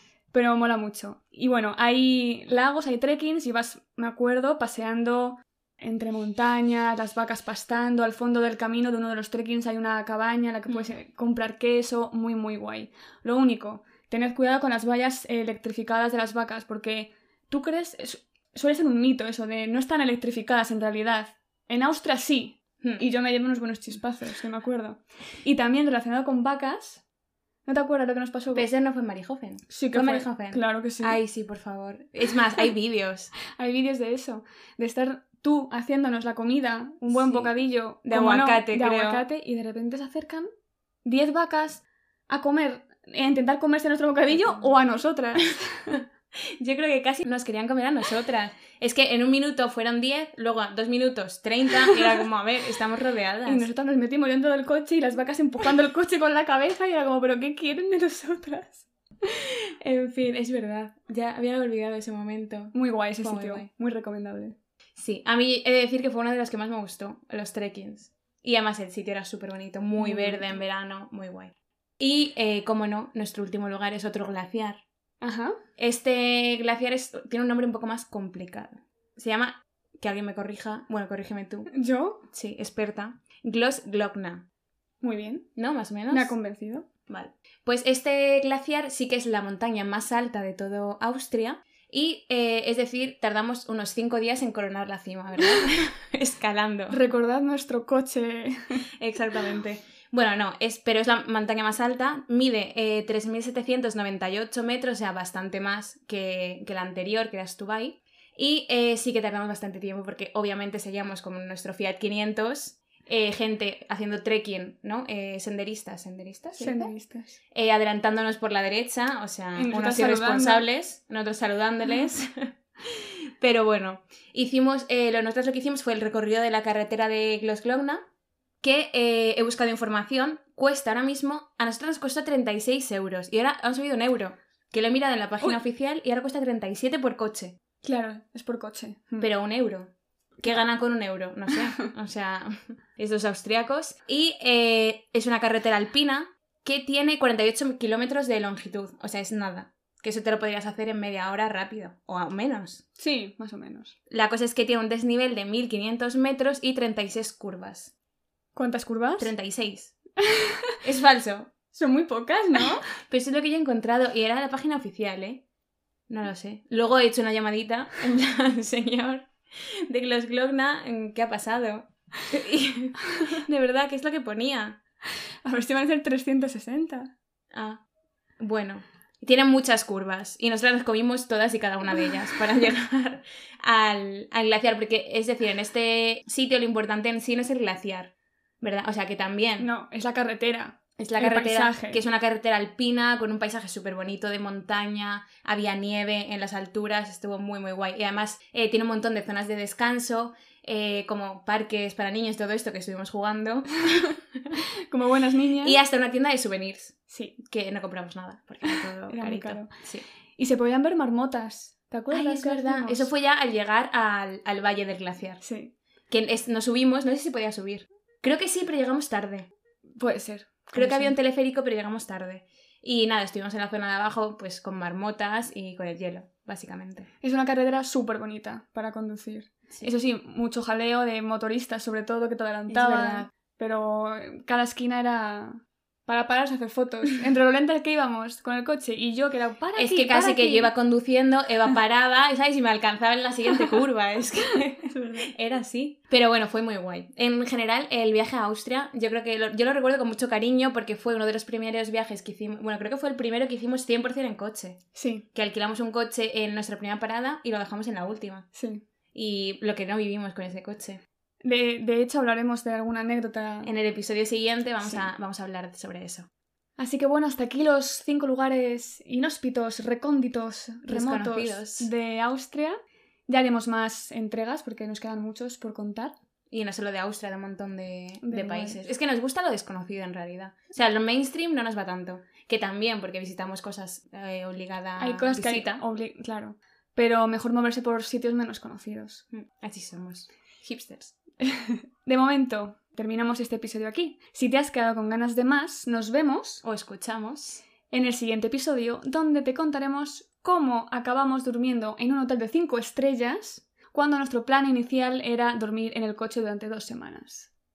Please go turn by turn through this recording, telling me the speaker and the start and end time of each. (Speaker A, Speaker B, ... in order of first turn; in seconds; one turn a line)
Speaker A: 0.3-27.0
Speaker A: 27.6-28.6
Speaker B: 28.5-33.3
Speaker A: 29.7-31.2
Speaker A: 33.5-40.5
Speaker B: 37.1-37.5
Speaker B: 38.0-39.2
Speaker A: 41.0-46.0
Speaker B: 46.6-53.7
Speaker A: 53.5-58.9
Speaker B: 59.4-63.7
Speaker A: 62.7-64.6
Speaker B: 65.0-74.8
Speaker A: 70.0-70.6
Speaker A: 75.2-75.6
Speaker B: 75.8-81.7
Speaker A: 81.7-82.2
Speaker B: 82.3-84.4
Speaker A: 85.0-85.4
Speaker B: 85.6-86.3
Speaker A: 86.1-86.9
Speaker B: 87.1-97.0
Speaker A: 96.9-98.8
Speaker B: 99.0-116.9
Speaker A: 116.6-117.4
Speaker B: 117.5-128.0
Speaker A: 119.6-120.6
Speaker B: 128.6-137.6
Speaker A: 137.8-139.3
Speaker B: 139.2-139.9
Speaker B: 140.4-152.8
Speaker A: 153.0-153.9
Speaker B: 154.1-157.9
Speaker A: 158.6-159.3
Speaker B: 159.2-159.9
Speaker A: 160.2-160.8
Speaker B: 160.8-161.5
Speaker A: 161.7-162.8
Speaker B: 163.0-165.4
Speaker B: 166.1-174.8
Speaker A: 175.4-177.1
Speaker B: 177.5-177.8
Speaker B: 178.4-189.7
Speaker A: 189.6-192.0
Speaker B: 191.1-204.6
Speaker A: 204.9-205.8
Speaker B: 205.6-210.0
Speaker A: 207.1-207.4
Speaker A: 209.1-209.7
Speaker A: 210.4-213.1
Speaker B: 212.1-215.4
Speaker A: 215.4-215.7
Speaker B: 216.1-219.5
Speaker A: 220.0-221.1
Speaker B: 220.7-227.1
Speaker A: 227.2-240.7
Speaker B: 232.7-233.3
Speaker B: 239.8-254.8
Speaker A: 244.9-245.3
Speaker A: 254.9-255.3
Speaker B: 255.3-258.5
Speaker A: 258.6-258.8
Speaker B: 259.1-261.0
Speaker A: 261.4-263.7
Speaker B: 263.6-266.3
Speaker A: 266.8-272.8
Speaker B: 270.9-271.9
Speaker A: 273.3-276.1
Speaker B: 276.5-285.8
Speaker A: 278.2-278.8
Speaker A: 285.0-289.2
Speaker B: 289.3-291.1
Speaker A: 291.4-296.6
Speaker B: 296.6-297.6
Speaker A: 297.9-307.5